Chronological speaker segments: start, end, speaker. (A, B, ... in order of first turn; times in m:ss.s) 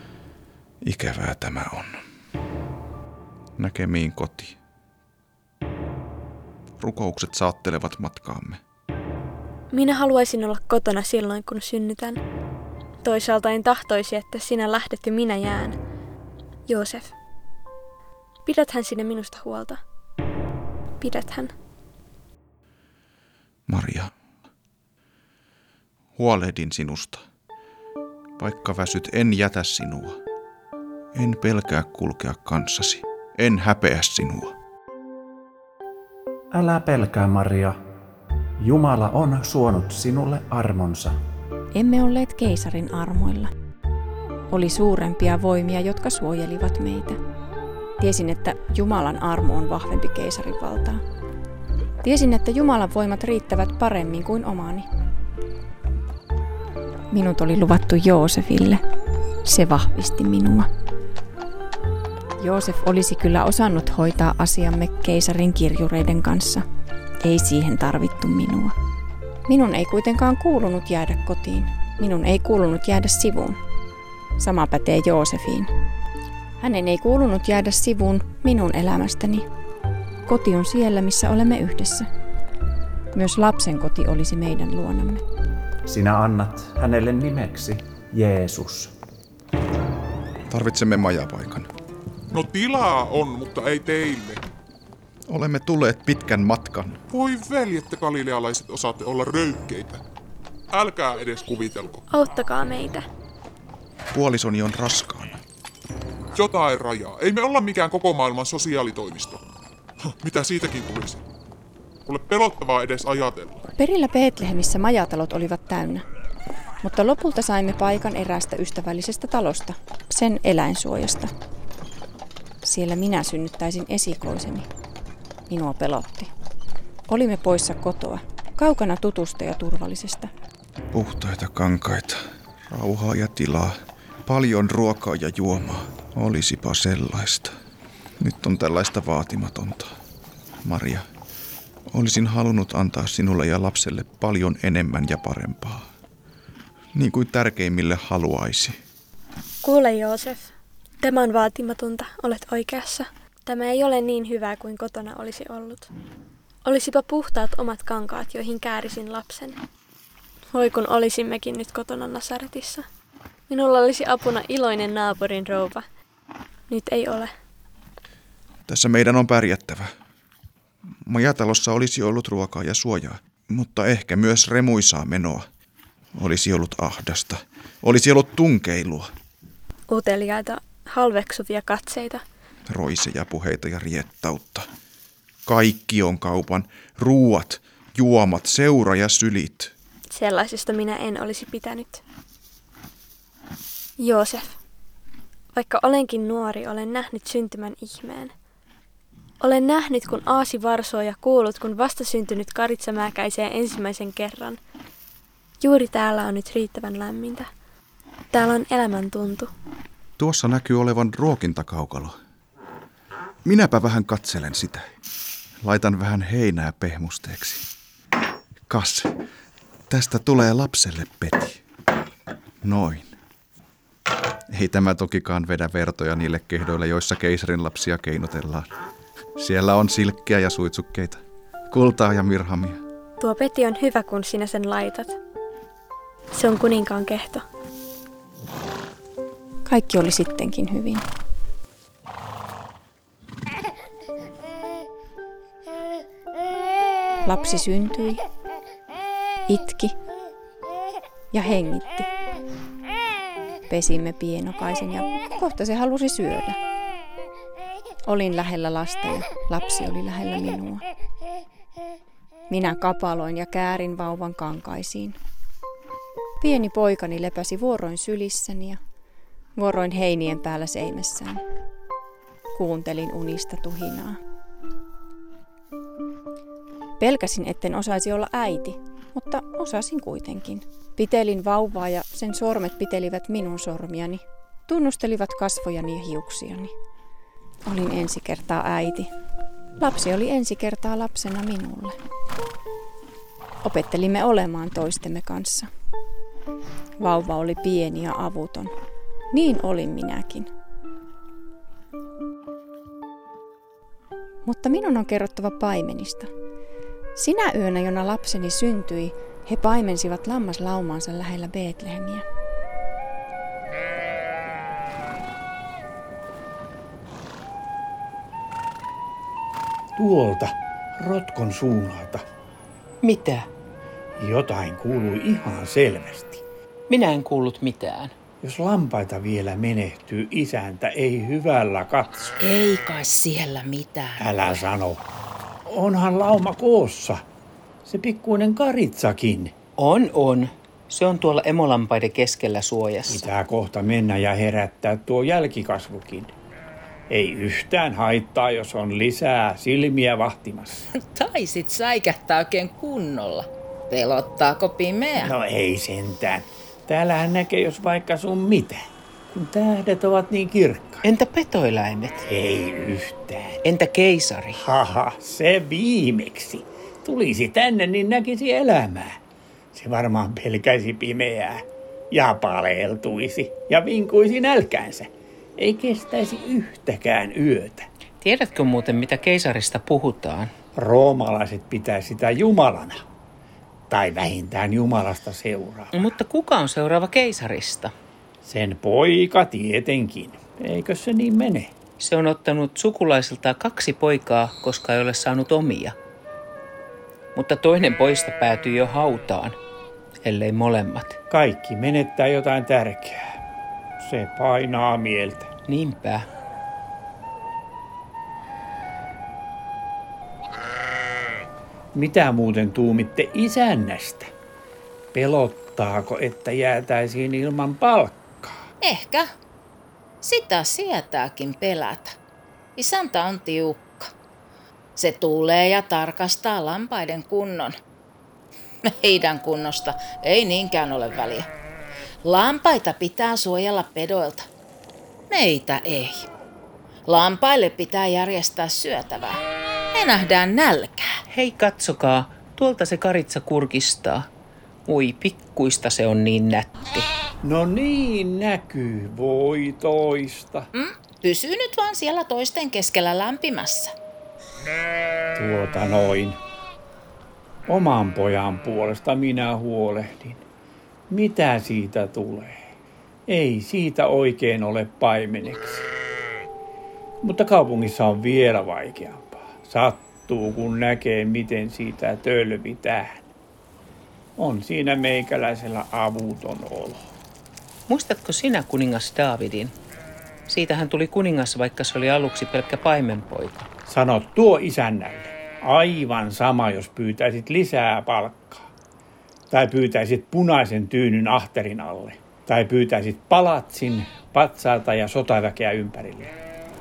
0:00.8-0:02.0 A
0:03.6-0:04.6 A
0:06.8-0:08.6 A
0:09.7-0:12.2 B
0:13.0-0:15.8 B
0:16.7-0:17.1 B
0:18.4-0:19.8 B
0:21.0-0:21.5 B
0:23.7-0:24.1 A
0:26.2-0:27.2 A
0:28.4-0:30.2 A
0:31.1-0:34.5 A
0:36.5-0:37.8 C
0:38.6-0:41.1 C
0:41.7-0:43.5 D
0:44.5-0:47.2 D
0:48.0-0:51.0 D
0:52.0-0:54.8 D
0:57.1-0:58.8 D
0:59.4-1:00.7 D
1:02.4-1:06.6 D
1:07.2-1:08.7 D
1:09.5-1:13.6 D
1:14.4-1:15.7 D
1:16.6-1:19.4 D
1:20.3-1:22.1 D
1:23.1-1:25.2 D
1:25.8-1:28.9 C
1:30.5-1:31.7 A
1:32.3-1:34.4 E
1:35.3-1:37.0 A
1:37.1-1:40.0 E
1:40.7-1:42.0 E
1:42.1-1:43.0 B
1:44.1-1:45.4 A
1:46.3-1:49.4 E
1:50.2-1:51.2 E
1:52.0-1:53.6 E
1:53.6-1:56.0 D
1:56.8-2:01.3 D
2:02.6-2:04.7 D
2:05.5-2:06.3 D
2:07.1-2:10.3 D
2:10.9-2:17.5 A
2:18.2-2:19.9 A
2:20.6-2:21.0 A
2:21.9-2:25.8 A
2:26.9-2:28.8 A
2:29.6-2:35.9 B
2:36.6-2:39.6 B
2:40.5-2:42.8 B
2:43.5-2:45.8 B
2:46.7-2:47.3 B
2:48.7-2:49.9 A
2:51.0-2:55.5 A
2:56.1-2:59.1 A
2:59.9-3:02.2 B
3:02.7-3:04.7 A
3:05.4-3:09.7 A
3:10.1-3:12.0 B
3:14.0-3:14.6 B
3:15.5-3:18.3 B
3:19.4-3:24.6 B
3:25.6-3:27.5 B
3:28.3-3:29.5 B
3:30.2-3:32.2 A
3:33.4-3:34.8 A
3:35.6-3:37.7 A
3:38.7-3:39.1 A
3:39.9-3:41.6 A
3:42.6-3:43.1 A
3:44.5-3:48.7 A
3:49.4-3:52.8 A
3:53.2-3:55.2 B
3:56.3-3:57.4 B
3:59.6-4:01.0 D
4:07.2-4:08.2 D
4:09.5-4:09.9 D
4:11.3-4:12.1 D
4:13.7-4:16.6 D
4:18.0-4:20.8 D
4:22.5-4:25.2 D
4:26.4-4:28.8 D
4:29.6-4:31.4 D
4:32.5-4:34.2 D
4:37.0-4:46.7 D
4:47.6-4:49.1 D
4:49.8-4:52.0 D
4:53.6-4:55.7 D
4:57.0-4:58.7 D
4:59.3-5:00.5 D
5:04.4-5:06.3 D
5:07.2-5:12.2 D
5:20.0-5:22.2 F
5:23.0-5:23.5 G
5:24.2-5:26.4 F
5:26.9-5:28.1 G
5:28.4-5:32.1 F
5:32.4-5:34.2 H
5:34.2-5:35.0 F
5:35.7-5:37.2 F
5:37.8-5:39.5 F
5:39.8-5:43.2 G
5:43.1-5:46.3 F
5:47.1-5:50.9 F
5:50.9-5:55.3 H
5:55.2-6:01.0 F
6:01.0-6:02.2 G
6:02.2-6:03.6 F
6:03.6-6:04.6 G
6:04.6-6:09.2 F
6:09.7-6:17.8 F
6:18.2-6:20.5 G
6:20.8-6:23.0 F
6:23.9-6:26.0 F
6:25.9-6:27.9 G
6:28.4-6:31.7 F
6:32.0-6:35.9 G
6:37.3-6:39.6 G
6:40.2-6:41.2 G
6:41.3-6:43.4 F
6:44.0-6:45.5 F
6:45.7-6:46.2 G
6:51.9-6:54.3 F
6:55.1-6:58.6 F
6:58.8-6:59.3 H
7:00.2-7:02.2 H
7:02.8-7:04.1 H
7:05.0-7:07.8 H
7:08.8-7:11.5 H
7:12.2-7:14.5 H
7:15.3-7:16.2 H
7:17.1-7:19.4 H
7:19.9-7:21.2 H
7:21.3-7:24.3 G
7:24.9-7:27.0 G
7:27.4-7:30.7 F
7:30.7-7:33.9 H
7:35.4-7:36.4 F
7:37.7-7:40.4 F
7:41.1-7:42.6 F
7:43.3-7:45.9 F
7:47.2-7:53.2 F
7:54.4-7:57.1 F
7:57.9-7:59.7 G
8:00.5-8:03.7 G
8:03.9-8:08.7 F
8:09.5-8:16.3 F